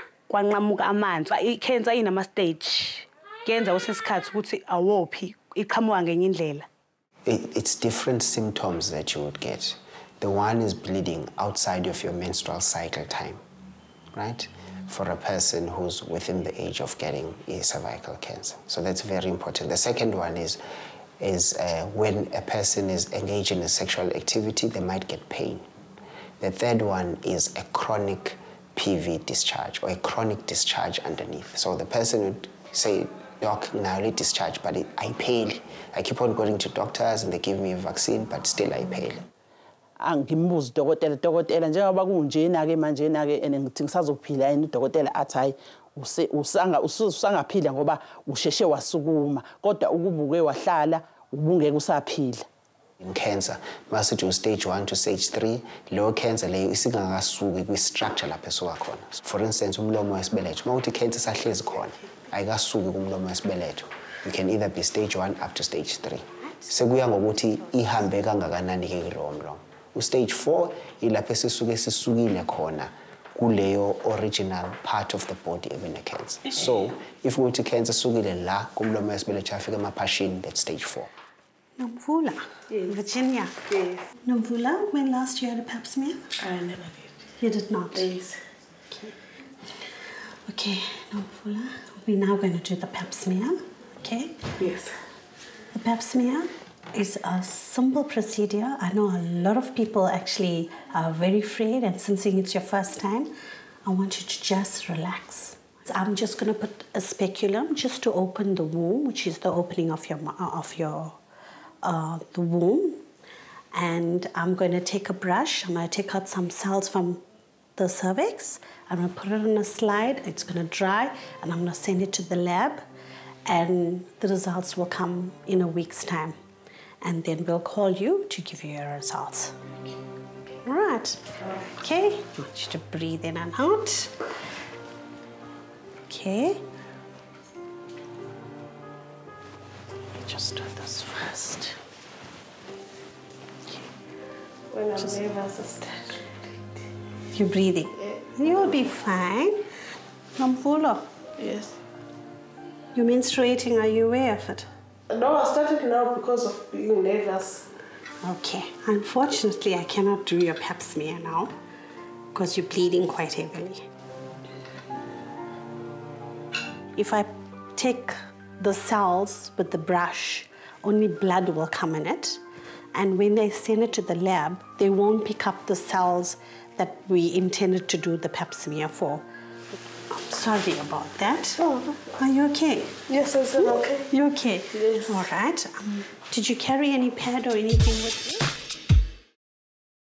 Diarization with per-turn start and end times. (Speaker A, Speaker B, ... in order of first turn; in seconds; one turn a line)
Speaker A: 0.3-6.7
Speaker B: 7.2-13.4
Speaker B: 14.1-20.6
Speaker B: 21.2-25.6
Speaker B: 26.4-39.3
Speaker C: 40.0-52.4
Speaker B: 53.0-81.1
Speaker D: 81.8-83.6
Speaker D: 84.2-86.3
Speaker E: 86.4-87.2
Speaker D: 87.4-88.1
Speaker E: 87.9-88.4
Speaker D: 88.9-89.1
Speaker D: 90.5-94.5
Speaker E: 94.6-94.9
Speaker D: 95.7-103.3
Speaker D: 103.8-111.2
Speaker D: 111.8-113.0
Speaker D: 113.7-117.2
Speaker D: 117.8-122.8
Speaker D: 123.5-126.4
Speaker D: 127.0-129.6
Speaker D: 130.6-134.2
Speaker D: 136.1-136.6
Speaker D: 140.1-141.8
Speaker E: 144.7-146.6
Speaker D: 144.9-145.3
Speaker D: 147.3-149.6
Speaker D: 150.4-151.1
Speaker E: 151.4-151.7
Speaker D: 152.9-154.7
Speaker E: 155.1-157.7
Speaker D: 158.2-161.5
Speaker D: 162.3-163.8
Speaker D: 166.9-172.4
Speaker D: 172.9-179.2
Speaker D: 180.1-183.0
Speaker E: 183.1-184.1
Speaker D: 183.5-188.4